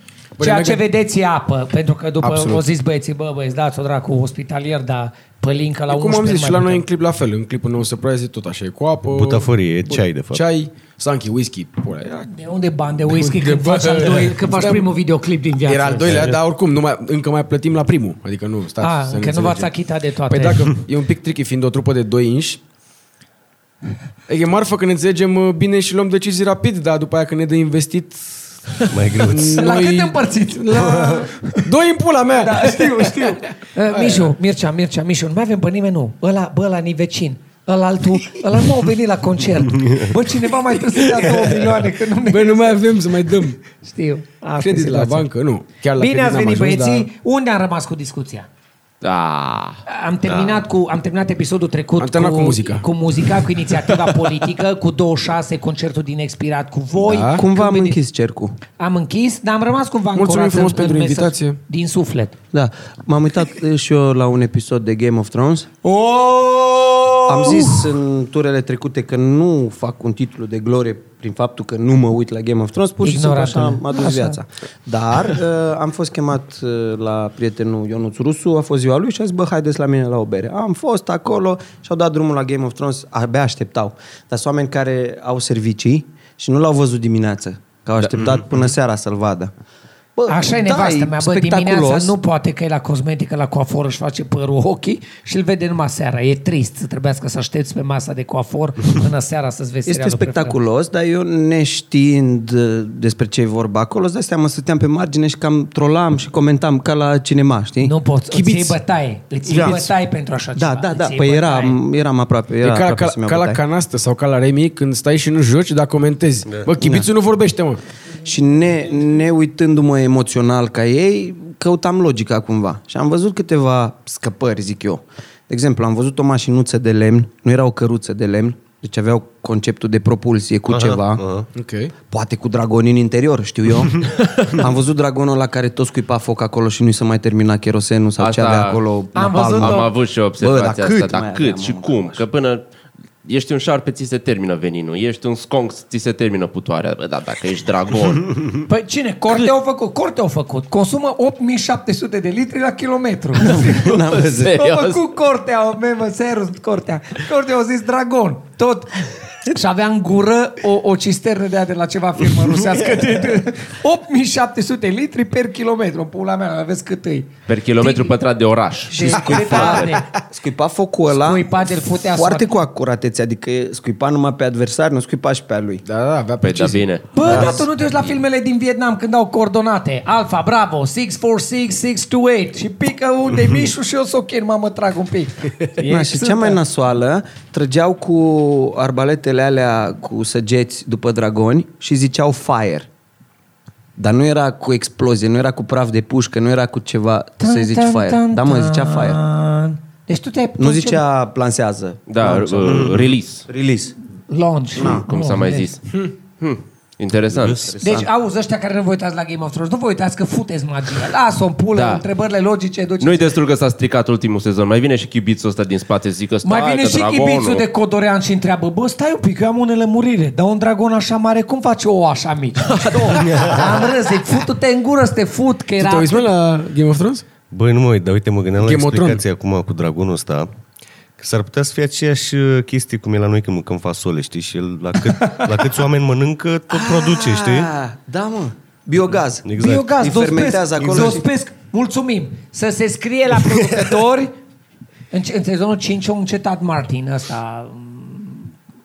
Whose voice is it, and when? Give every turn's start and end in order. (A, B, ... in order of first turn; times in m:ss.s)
0:00.4-0:00.8 A
0:00.4-0:06.9 B
0:02.2-0:02.6 A
0:05.9-0:12.1 A
0:09.1-0:10.4 C
0:12.0-0:16.3 B
0:13.1-0:14.9 A
0:15.7-0:19.7 A
0:16.1-0:16.4 C
0:18.8-0:20.7 B
0:20.3-0:22.6 A
0:24.3-0:28.6 A
0:28.8-0:31.7 B
0:28.9-0:29.7 C
0:29.2-0:34.2 A
0:32.4-0:42.8 B
0:41.1-0:41.7 A
0:42.3-0:43.6 A
0:43.8-0:45.3 B
0:44.6-0:47.1 A
0:46.0-0:48.5 B
0:49.0-0:49.8 D
0:49.9-0:58.0 B
0:52.0-0:52.9 A
0:57.0-0:57.4 A
0:57.3-0:58.6 E
0:58.8-1:02.4 B
1:00.2-1:01.6 A
1:02.5-1:05.7 E
1:05.8-1:07.9 B
1:07.3-1:29.5 E
1:13.0-1:14.4 B
1:30.2-1:32.2 E
1:30.3-1:40.6 B
1:39.9-1:48.0 E
1:47.8-1:51.8 B
1:48.3-1:48.8 A
1:49.5-1:49.9 E
1:50.6-1:53.6 E
1:52.6-1:57.8 A
1:56.8-1:57.1 E
1:58.2-2:11.2 E
2:10.7-2:11.5 C
2:11.6-2:11.9 A
2:12.1-2:22.2 E
2:18.2-2:18.8 D
2:19.2-2:19.9 B
2:19.6-2:22.6 D
2:23.2-2:28.6 D
2:28.6-2:48.2 B
2:33.4-2:34.6 E
2:33.4-2:35.0 D
2:47.5-2:50.0 D
2:48.9-2:50.1 B
2:49.0-2:51.5 E
2:51.1-2:52.5 B
2:52.1-2:55.8 E
2:55.8-2:56.8 A
2:56.4-2:58.1 D
2:57.1-3:06.6 B
2:57.2-2:57.6 E
3:05.8-3:12.9 E
3:14.0-3:19.2 E
3:17.4-3:21.0 B
3:20.6-3:24.0 E
3:22.1-3:23.5 D
3:24.3-3:25.7 B
3:24.8-3:25.0 E
3:24.8-3:27.8 D
3:27.6-3:28.1 E
3:27.8-3:33.3 B
3:31.8-3:32.0 D
3:33.0-3:37.6 D
3:36.4-3:46.3 B
3:43.1-3:43.8 C
3:45.8-3:47.3 A
3:47.5-3:50.5 C
3:48.6-3:49.2 A
3:51.2-3:57.7 C
3:55.2-3:55.5 B
3:56.7-4:01.2 E
3:59.4-4:00.0 C
3:59.6-4:04.4 B
4:00.7-4:01.2 C
4:05.1-4:08.5 B